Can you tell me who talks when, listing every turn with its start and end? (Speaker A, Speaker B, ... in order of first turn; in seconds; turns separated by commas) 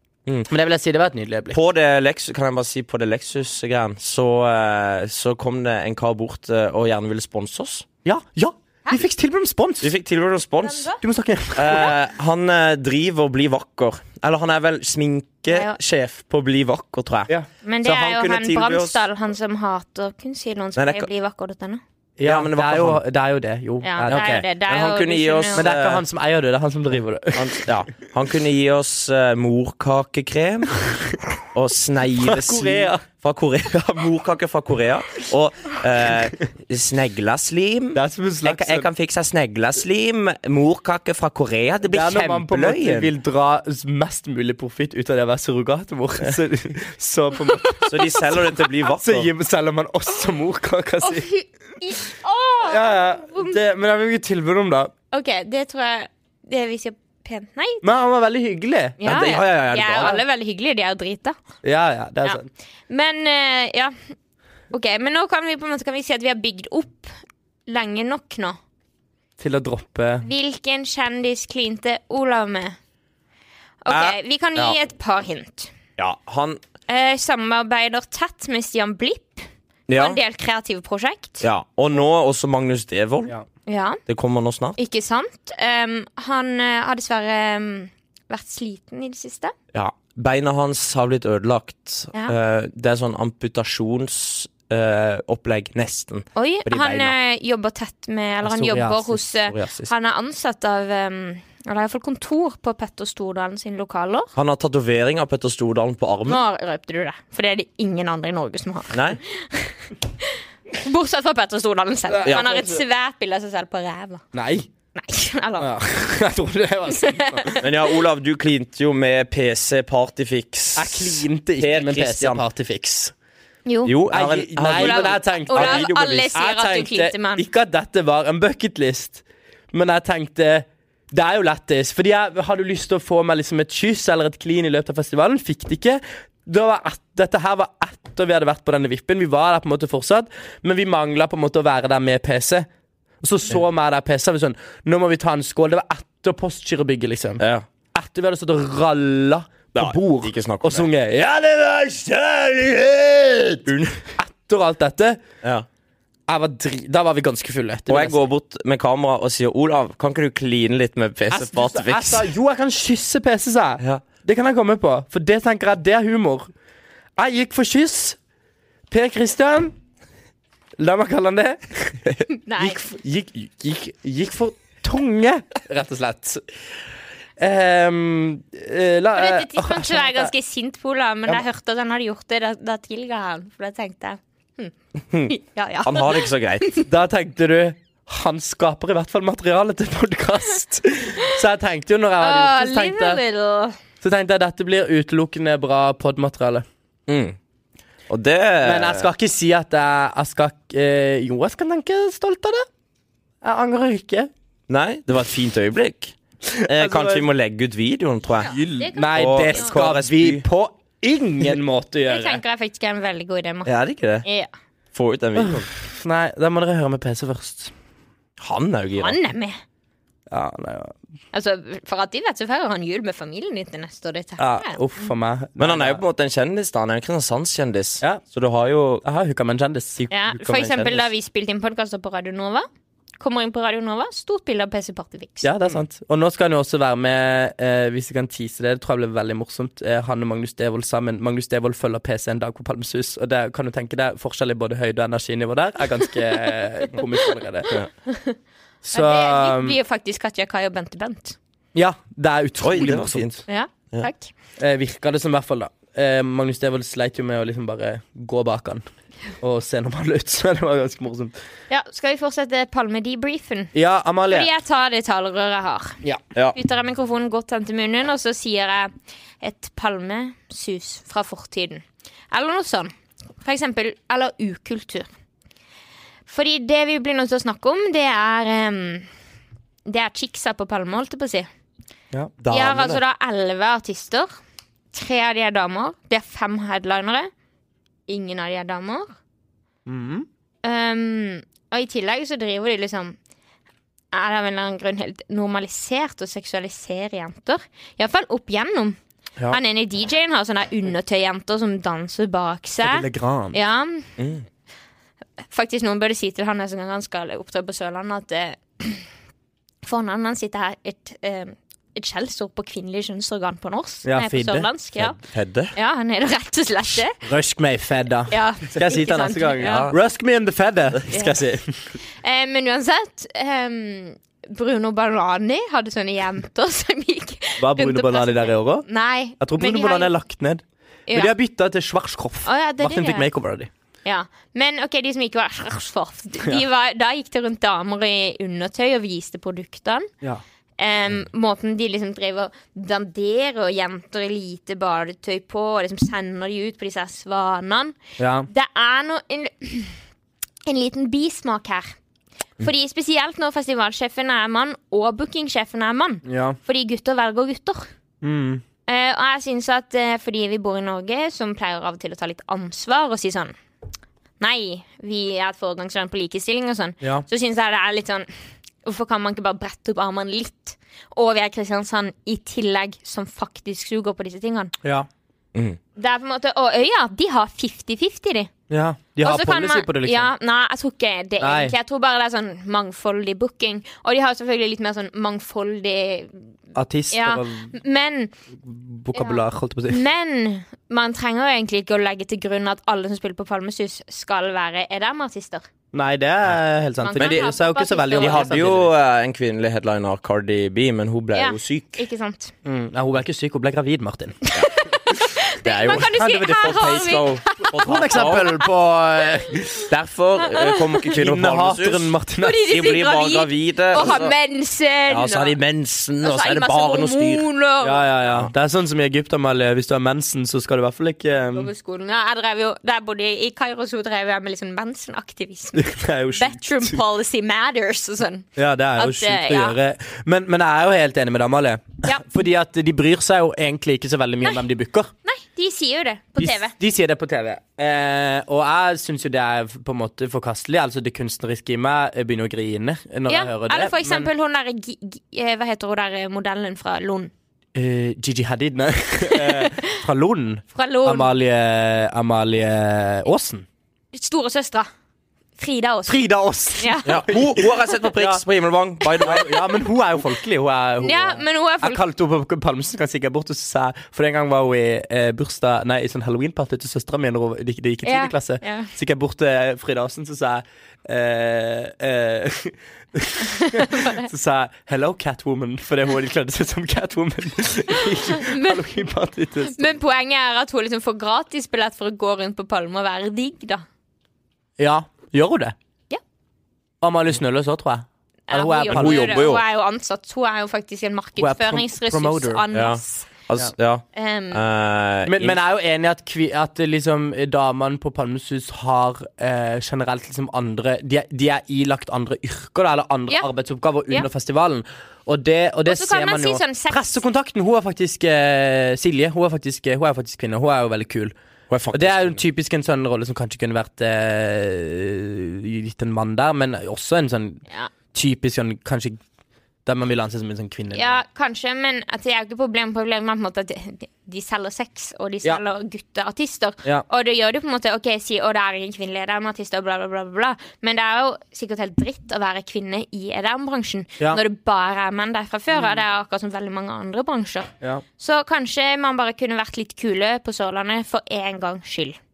Speaker A: 0.5-1.6, Speaker B: 1.5-7.9, Speaker A: 8.0-9.9, Speaker B: 9.8-10.9, Speaker C: 10.6-11.0, Speaker A: 11.0-11.9, Speaker B: 11.5-19.0, Speaker C: 15.5-15.8, Speaker C: 17.6-21.8, Speaker B: 20.8-21.1, Speaker A: 22.2-24.4, Speaker B: 22.2-23.0, Speaker C: 23.8-25.7, Speaker B: 24.0-26.0, Speaker A: 25.5-27.7, Speaker B: 27.3-30.8, Speaker B: 31.5-43.1, Speaker A: 32.1-33.0, Speaker A: 37.9-38.9, Speaker A: 41.9-48.2, Speaker B: 47.8-49.3, Speaker A: 49.0-51.3, Speaker C: 51.0-53.6, Speaker A: 52.6-54.9, Speaker C: 55.1-57.8, Speaker A: 57.8-59.1, Speaker C: 59.0-61.4, Speaker B: 59.0-60.2, Speaker A: 61.6-62.5, Speaker C: 62.2-63.9, Speaker C: 64.7-67.1, Speaker C: 67.7-68.6, Speaker A: 69.4-70.3, Speaker C: 70.2-72.8, Speaker C: 73.8-75.7, Speaker B: 73.9-74.8, Speaker B: 76.0-76.6, Speaker C: 76.9-81.4, Speaker B: 79.9-80.2, Speaker B: 81.4-83.3, Speaker C: 83.7-84.0, Speaker B: 84.0-84.8, Speaker C: 84.8-89.5, Speaker B: 89.7-97.1, Speaker C: 96.3-104.3, Speaker A: 98.4-99.5, Speaker B: 99.5-99.9, Speaker B: 104.3-106.4, Speaker C: 106.3-114.2, Speaker B: 108.9-109.2, Speaker A: 112.1-112.8, Speaker A: 114.3-114.7, Speaker C: 114.9-115.7, Speaker A: 115.6-117.5, Speaker C: 116.9-117.7, Speaker B: 117.6-122.4, Speaker A: 120.8-123.1, Speaker C: 123.7-123.9, Speaker B: 123.8-126.3, Speaker A: 124.1-142.7, Speaker C: 124.7-127.5, Speaker A: 143.2-147.4, Speaker B: 147.4-147.7, Speaker A: 147.9-153.6, Speaker B: 149.7-150.9, Speaker B: 153.7-154.0, Speaker A: 154.2-155.2, Speaker B: 155.4-155.7, Speaker A: 156.3-158.2, Speaker B: 157.9-162.3, Speaker A: 161.3-166.5, Speaker A: 167.2-168.2, Speaker A: 168.9-169.7, Speaker A: 170.8-176.4, Speaker C: 172.3-172.8, Speaker A: 177.4-180.3, Speaker C: 179.1-184.7, Speaker C: 185.2-186.8, Speaker B: 185.8-186.7, Speaker A: 186.8-193.2, Speaker C: 192.2-193.8, Speaker A: 194.0-196.6, Speaker B: 197.1-197.4, Speaker B: 198.1-199.1, Speaker A: 198.6-202.7, Speaker A: 203.4-204.3, Speaker B: 204.7-210.4, Speaker A: 206.5-207.2, Speaker C: 208.4-209.7, Speaker A: 208.5-212.4, Speaker C: 212.1-213.7, Speaker B: 213.7-214.2, Speaker C: 214.2-214.5, Speaker B: 214.9-215.7, Speaker A: 215.3-217.7, Speaker B: 218.4-219.2, Speaker C: 218.9-219.6, Speaker A: 220.3-220.9, Speaker C: 221.3-224.8, Speaker A: 224.4-226.0, Speaker B: 225.6-229.0, Speaker A: 229.0-230.1, Speaker C: 230.1-232.7, Speaker B: 230.3-231.1, Speaker C: 233.2-235.5, Speaker A: 235.4-247.8, Speaker C: 248.1-248.3, Speaker A: 248.8-249.8, Speaker C: 248.9-251.4, Speaker A: 251.7-253.4, Speaker B: 252.6-254.1, Speaker C: 253.5-254.3, Speaker A: 254.6-258.8, Speaker A: 259.4-261.3, Speaker C: 261.7-263.7, Speaker A: 263.7-264.5, Speaker C: 264.3-266.0, Speaker C: 266.5-275.1, Speaker C: 276.3-279.1, Speaker C: 279.8-281.5, Speaker B: 282.4-283.0, Speaker C: 282.5-284.3, Speaker C: 284.9-287.3, Speaker C: 288.1-289.1, Speaker A: 289.9-290.2, Speaker C: 290.6-293.2, Speaker C: 294.1-299.0, Speaker C: 299.5-304.1, Speaker A: 302.8-303.6, Speaker B: 304.2-304.4, Speaker C: 305.5-309.1, Speaker C: 309.8-315.2, Speaker A: 314.0-314.7, Speaker B: 315.0-315.7, Speaker C: 315.7-317.2, Speaker A: 317.2-321.9, Speaker C: 318.3-319.9, Speaker B: 319.6-319.9, Speaker C: 321.1-321.4, Speaker C: 322.1-330.1, Speaker A: 327.6-328.9, Speaker A: 329.4-333.7, Speaker C: 331.1-331.3, Speaker C: 332.4-333.3, Speaker C: 334.0-340.1, Speaker C: 340.8-348.0, Speaker A: 348.2-348.5, Speaker C: 348.5-350.0, Speaker C: 350.6-352.0, Speaker C: 352.6-357.9, Speaker A: 356.2-356.6, Speaker A: 358.2-358.6, Speaker C: 358.9-363.5, Speaker C: 364.4-368.3, Speaker C: 368.8-374.7, Speaker A: 374.8-375.1, Speaker B: 375.5-375.8, Speaker C: 376.0-378.5, Speaker A: 378.7-380.3, Speaker C: 379.2-386.5, Speaker A: 381.4-381.7, Speaker A: 386.7-387.7, Speaker C: 387.1-388.3, Speaker A: 388.6-390.0, Speaker C: 389.1-395.6, Speaker A: 395.9-398.9, Speaker C: 397.0-398.7, Speaker B: 397.1-397.5, Speaker B: 398.1-402.0, Speaker C: 401.3-402.5, Speaker A: 402.6-404.4, Speaker C: 404.4-407.9, Speaker B: 405.6-408.6, Speaker A: 405.8-406.8, Speaker A: 407.7-409.9, Speaker B: 409.9-412.1, Speaker C: 410.4-411.1, Speaker A: 411.1-412.6, Speaker C: 412.4-415.6, Speaker B: 412.6-414.3, Speaker B: 415.1-417.4, Speaker C: 416.2-418.1, Speaker A: 417.8-421.7, Speaker C: 421.5-429.8, Speaker A: 425.7-427.0, Speaker A: 428.6-435.1, Speaker C: 435.2-436.7, Speaker A: 436.4-444.3, Speaker C: 443.3-447.3, Speaker A: 447.7-453.6, Speaker C: 449.3-450.0, Speaker C: 450.7-451.3, Speaker C: 454.1-454.9, Speaker C: 455.6-456.2, Speaker A: 456.1-458.4, Speaker C: 456.8-457.2, Speaker B: 457.1-459.5, Speaker A: 459.2-479.9, Speaker C: 461.0-462.0, Speaker C: 468.0-468.9, Speaker C: 473.5-474.3, Speaker C: 478.0-478.8, Speaker C: 479.7-483.9, Speaker A: 484.8-485.7, Speaker A: 487.0-489.4, Speaker C: 488.5-493.3, Speaker B: 488.9-489.6, Speaker A: 491.4-492.6, Speaker B: 492.7-495.6, Speaker C: 494.1-494.6, Speaker A: 495.2-511.3, Speaker C: 505.9-507.2, Speaker B: 511.7-512.4, Speaker A: 511.9-519.2, Speaker A: 519.8-521.2, Speaker C: 520.9-542.2